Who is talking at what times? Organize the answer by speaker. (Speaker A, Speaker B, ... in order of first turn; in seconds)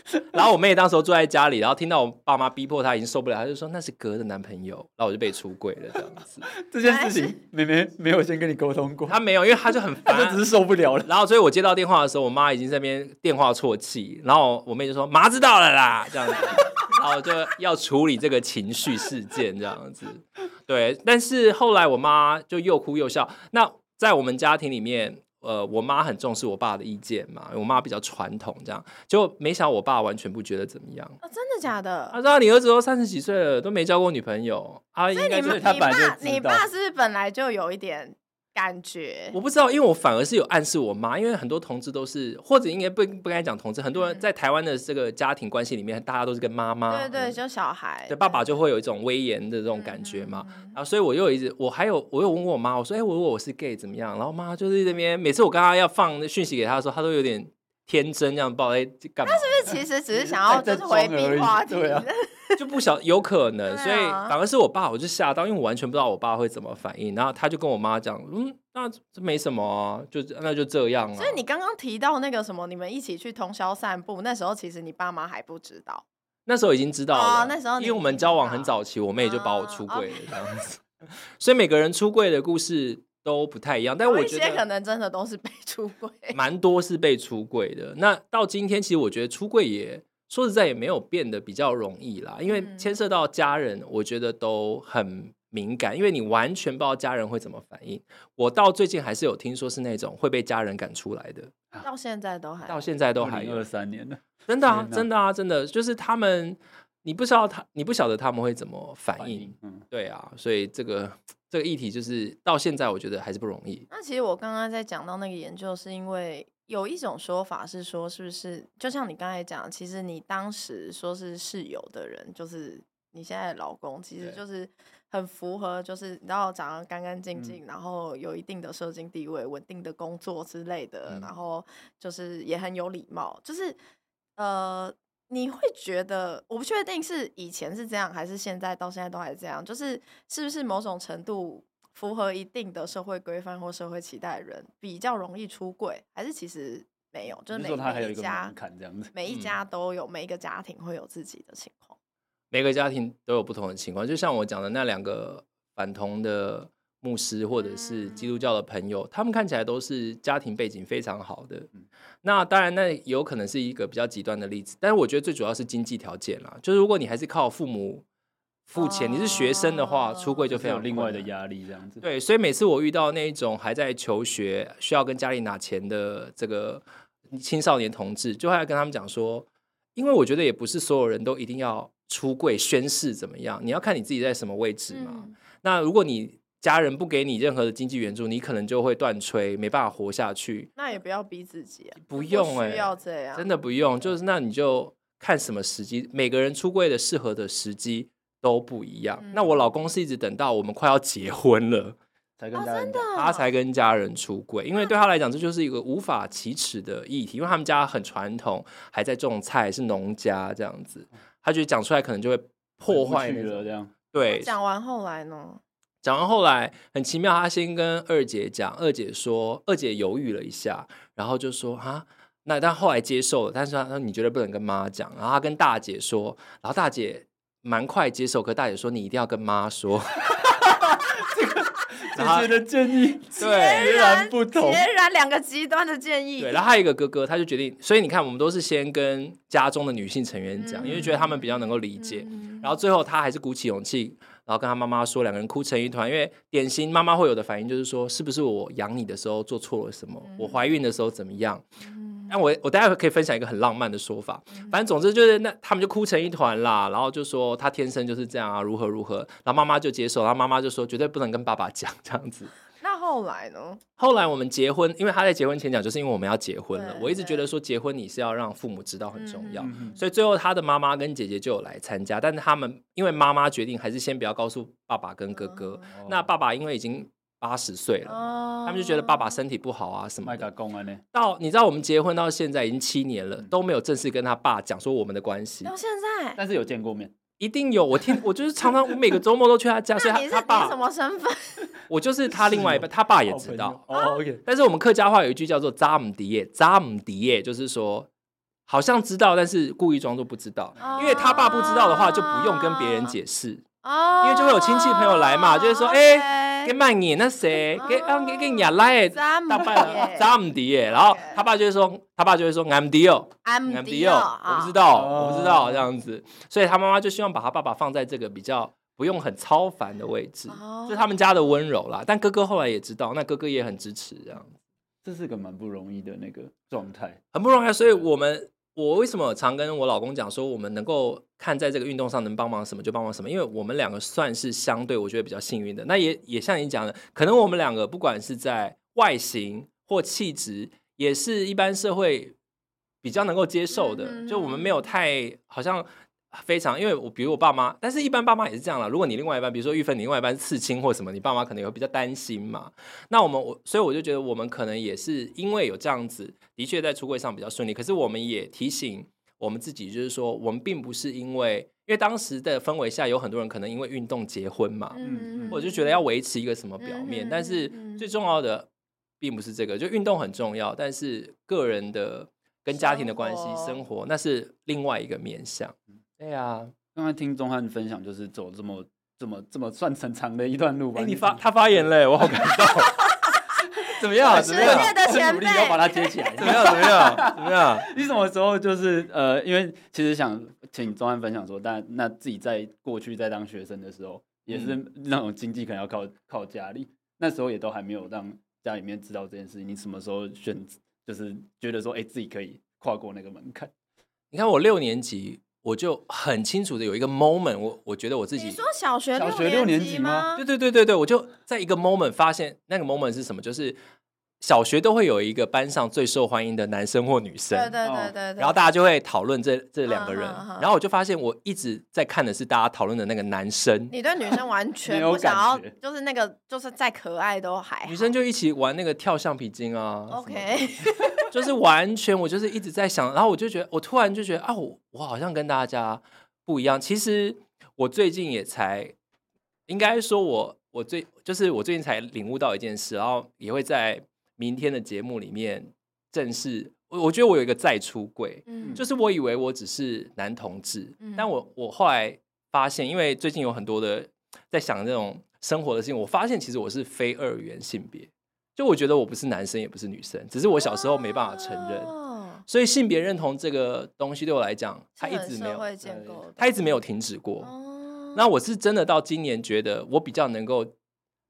Speaker A: 0.3-6.5, 9.1-10.4, 11.0-31.2, 32.1-35.8, 39.3-47.4, 48.1-59.8, 62.6-71.4, 76.5-80.8, 81.4-84.6, 86.3-101.5, 102.7-103.7, 104.5-113.9, 152.5-161.7, 162.2-168.1, 168.7-171.3, 172.0-190.7, 192.0-202.0, 203.2-214.5, 216.0-230.4, 232.2-232.6, 233.4-234.0, 236.4-251.7, 252.3-262.5, 264.0-280.5, 281.1-285.7, 287.4-290.8, 291.9-293.8, 294.4-298.1, 298.7-303.6, 304.2-324.6, 327.3-342.4, 343.0-368.7, 369.2-376.7, 381.0-383.1, 384.0-384.9, 386.4-387.9, 394.5-394.8, 404.3-408.6, 410.4-413.8, 414.4-417.7, 418.4-423.9, 427.9-430.6, 431.3-438.9, 439.7-461.9, 462.5-465.7, 466.4-467.5, 468.1-470.8
Speaker B: 6.6-9.2, 10.1-11.1, 35.4-36.7, 60.1-62.1, 103.2-105.1, 109.2-109.8, 147.5-149.1, 170.5-172.0, 202.4-203.1, 212.9-213.9, 230.4-234.9, 240.8-241.2, 269.6-270.0, 275.9-276.3, 280.2-281.0, 286.4-287.1, 292.3-294.4, 300.8-301.4, 314.9-315.9, 325.0-327.2, 365.0-365.6, 376.9-381.4, 383.8-403.7, 409.2-410.3, 417.8-418.1, 424.9-425.7, 465.8-466.2
Speaker C: 6.8-7.4, 31.2-32.2, 35.1-39.4, 44.0-44.2, 46.9-48.5, 49.8-50.8, 59.2-62.6, 63.7-64.4, 71.2-76.0, 77.1-80.2, 84.0-86.4, 92.5-92.9, 101.8-102.8, 113.9-133.8, 134.4-148.6, 149.1-152.0, 157.7-158.3, 168.8-170.4, 184.9-185.3, 190.8-193.5, 199.2-199.7, 202.5-203.5, 214.2-215.6, 233.4-236.6, 240.6-241.4, 242.0-242.7, 250.2-250.6, 251.8-252.3, 262.8-263.8, 266.7-267.4, 269.2-270.0, 275.4-275.9, 278.1-279.4, 285.6-286.4, 290.0-291.6, 293.9-294.2, 300.8-303.2, 303.8-306.8, 307.8-310.3, 311.1-311.4, 313.4-314.8, 320.5-321.1, 343.7-344.9, 364.9-366.0, 366.8-368.1, 372.7-373.8, 384.2-386.5, 408.4-410.4, 417.5-418.7, 419.9-420.7, 423.9-428.1, 430.1-431.3, 448.5-448.8, 451.0-451.3, 460.6-462.4, 465.0-466.6, 467.4-468.2